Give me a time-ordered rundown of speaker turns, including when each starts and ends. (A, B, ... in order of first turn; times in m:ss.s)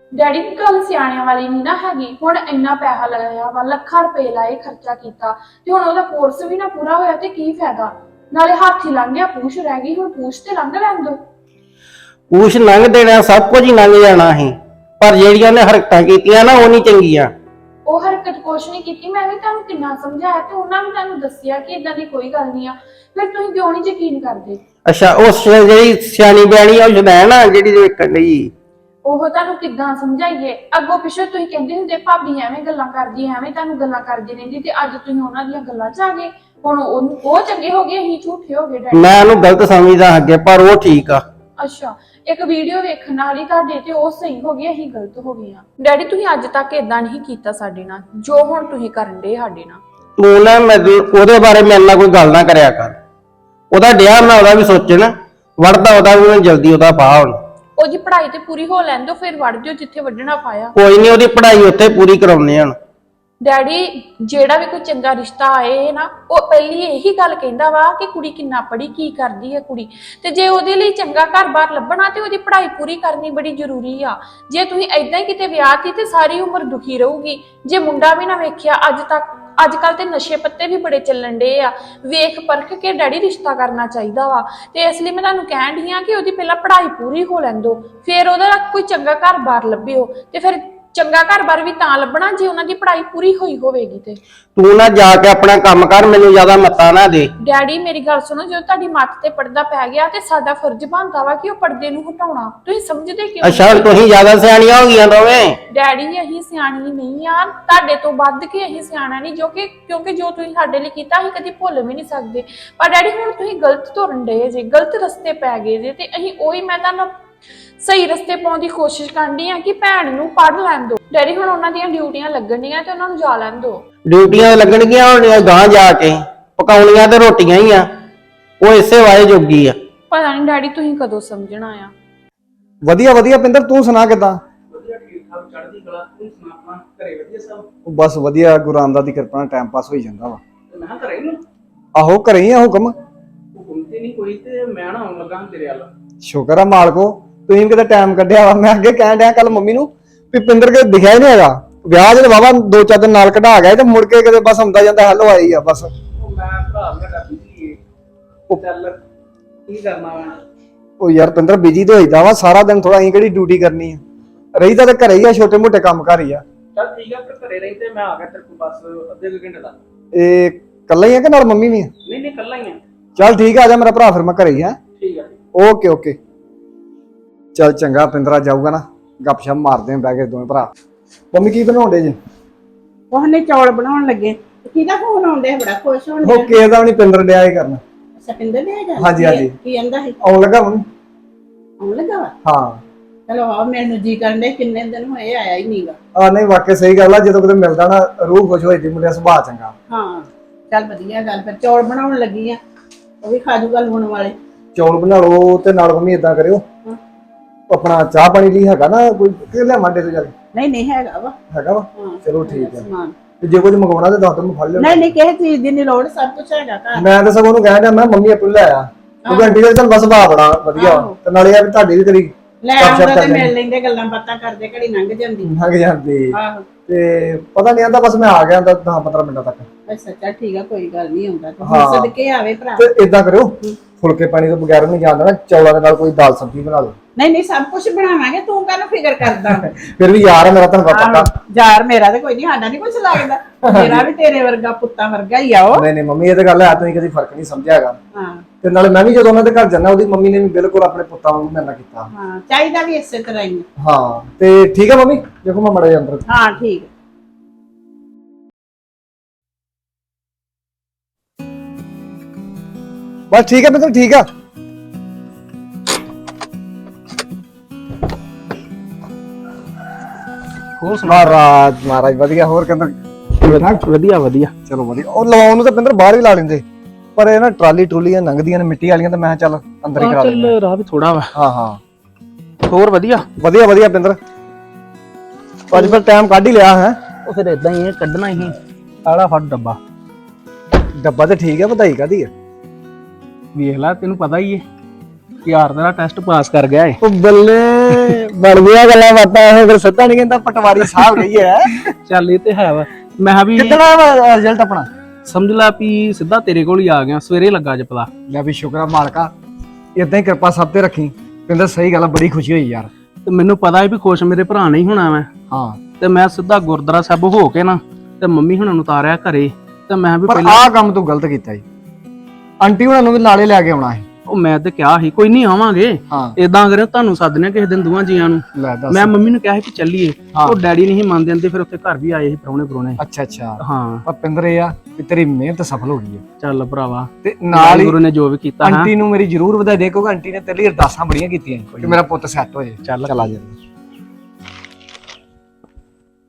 0:00.2-0:11.2 A
0:12.3-0:17.3 B
0:17.9-0:24.6 A
0:24.8-0:28.5 B
0:29.0-0:39.2 A
0:38.9-0:41.2 B
0:41.6-0:49.8 A
0:50.2-0:53.0 B
0:53.7-0:57.4 B
0:57.8-1:00.7 A
1:00.8-1:02.8 B
1:03.4-1:34.2 A
1:34.6-1:37.3 B
1:37.4-1:44.0 A
1:43.4-1:45.6 B
1:45.7-1:57.1 A
1:57.8-2:03.8 A
2:04.0-2:07.9 B
2:08.6-2:09.8 B
2:10.1-2:11.9 A
2:12.8-2:14.4 C
2:14.7-2:17.7 D
2:17.9-2:20.4 C
2:20.7-2:21.4 D
2:22.0-2:22.9 C
2:23.6-2:25.9 D
2:26.2-2:35.9 C
2:36.2-2:37.8 D
2:38.5-2:39.0 D
2:39.7-2:40.4 D
2:41.0-2:44.0 C
2:44.6-2:46.4 C
2:46.8-2:49.8 D
2:50.1-2:51.9 C
2:52.0-2:52.8 D
2:53.2-2:54.8 C
2:55.0-2:55.4 D
2:55.6-2:56.2 C
2:57.6-3:00.7 C
3:01.3-3:02.2 C
3:03.1-3:06.6 E
3:06.2-3:07.8 C
3:08.2-3:10.2 E
3:09.0-3:09.6 C
3:10.2-3:10.8 C
3:11.8-3:12.3 E
3:12.4-3:12.8 C
3:13.3-3:16.0 E
3:16.2-3:19.7 C
3:19.9-3:22.6 E
3:23.2-3:24.4 E
3:24.8-3:26.6 C
3:27.7-3:30.3 C
3:30.5-3:31.4 E
3:31.5-3:32.9 C
3:32.0-3:33.1 E
3:33.4-3:35.1 C
3:34.8-3:37.0 E
3:37.0-3:43.5 C
3:39.2-3:39.6 E
3:40.8-3:41.2 E
3:42.6-3:45.5 E
3:45.4-3:46.4 C
3:46.3-3:46.7 E
3:46.9-3:49.7 C
3:49.9-3:52.8 E
3:51.6-3:52.1 C
3:52.8-3:57.0 C
3:57.2-3:59.7 E
3:59.7-4:01.3 C
4:00.9-4:05.9 E
4:03.6-4:04.1 C
4:05.7-4:08.0 C
4:08.2-4:08.4 E
4:08.6-4:12.1 C
4:12.1-4:13.6 E
4:13.8-4:16.2 C
4:16.3-4:16.9 E
4:23.3-4:24.3 C
4:30.8-4:31.4 D
4:31.0-4:33.9 C
4:33.4-4:34.5 D
4:34.7-4:36.6 C
4:37.2-4:40.6 C
4:40.0-4:41.3 D
4:41.4-4:41.8 C
4:42.7-4:43.3 D
4:43.4-4:44.2 C
4:45.7-4:47.0 C
4:47.2-4:49.8 D
4:51.0-4:52.3 C
4:53.6-4:54.6 D
4:55.4-4:57.0 D
4:57.0-5:01.9 C
5:02.1-5:03.8 D
5:03.6-5:04.9 C
5:05.3-5:08.1 D
5:08.3-5:09.3 C
5:10.0-5:12.9 C
5:13.3-5:15.3 D
5:15.5-5:15.8 C
5:16.0-5:20.6 D
5:20.3-5:21.6 C
5:22.6-5:24.0 C
5:24.3-5:33.0 D
5:26.1-5:26.4 C
5:28.6-5:29.2 C
5:30.3-5:30.6 C
5:33.0-5:36.2 C
5:33.6-5:34.0 D
5:36.4-5:38.9 D
5:37.2-5:38.0 C
5:38.6-5:43.6 C
5:42.8-5:43.3 D